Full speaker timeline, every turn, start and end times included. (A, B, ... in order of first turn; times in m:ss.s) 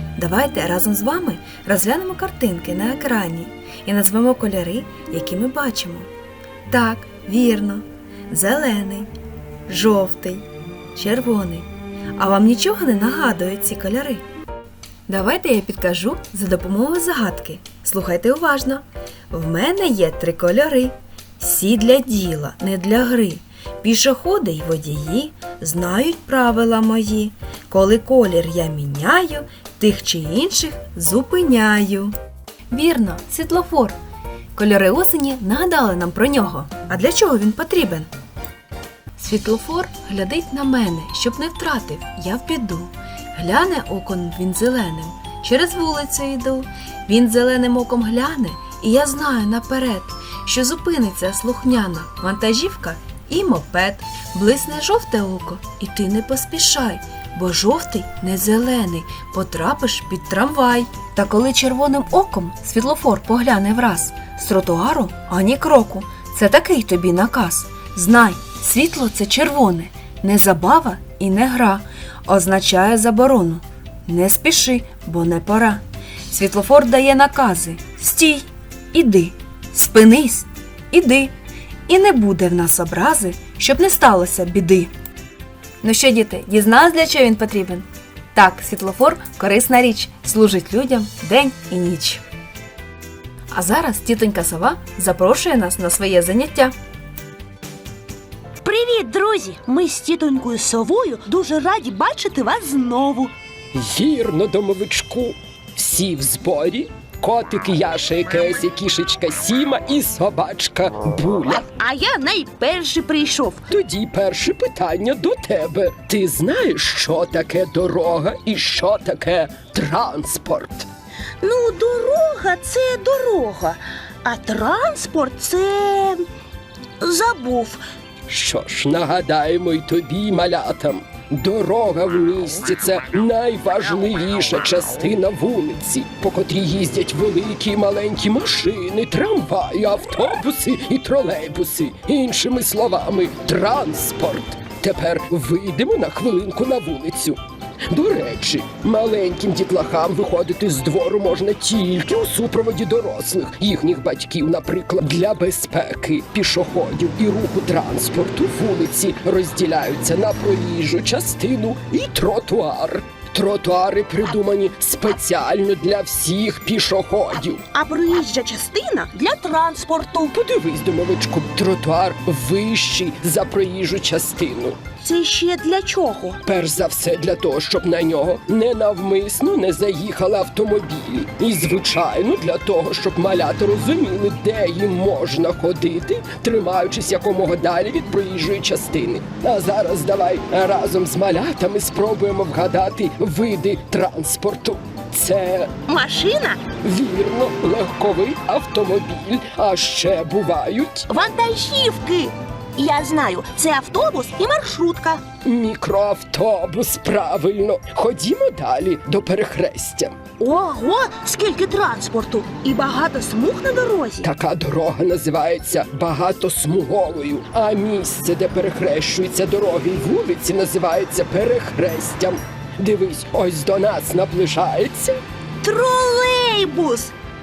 0:00.2-0:06.1 A
0:06.7-0:09.1 A
0:09.7-0:14.2 A
0:15.1-0:32.2 A
0:32.7-0:34.0 A
0:34.6-0:38.1 A
0:39.2-1:21.3 A
1:21.9-1:24.9 A
1:25.8-1:32.2 A
1:33.5-1:36.7 A
1:38.6-1:43.3 B
1:43.7-1:51.7 C
1:51.5-1:53.6 B
1:53.7-2:00.9 C
2:01.4-2:06.2 B
2:07.0-2:07.8 B
2:08.3-2:47.6 C
2:47.7-2:50.3 B
2:50.3-2:54.8 C
2:55.0-2:56.4 B
2:56.4-3:15.7 C
3:15.9-3:16.6 B
3:16.8-3:21.1 C
3:21.1-3:25.2 B
3:25.4-3:30.2 C
3:30.4-3:34.3 B
3:34.2-3:45.2 C
3:45.6-3:47.1 B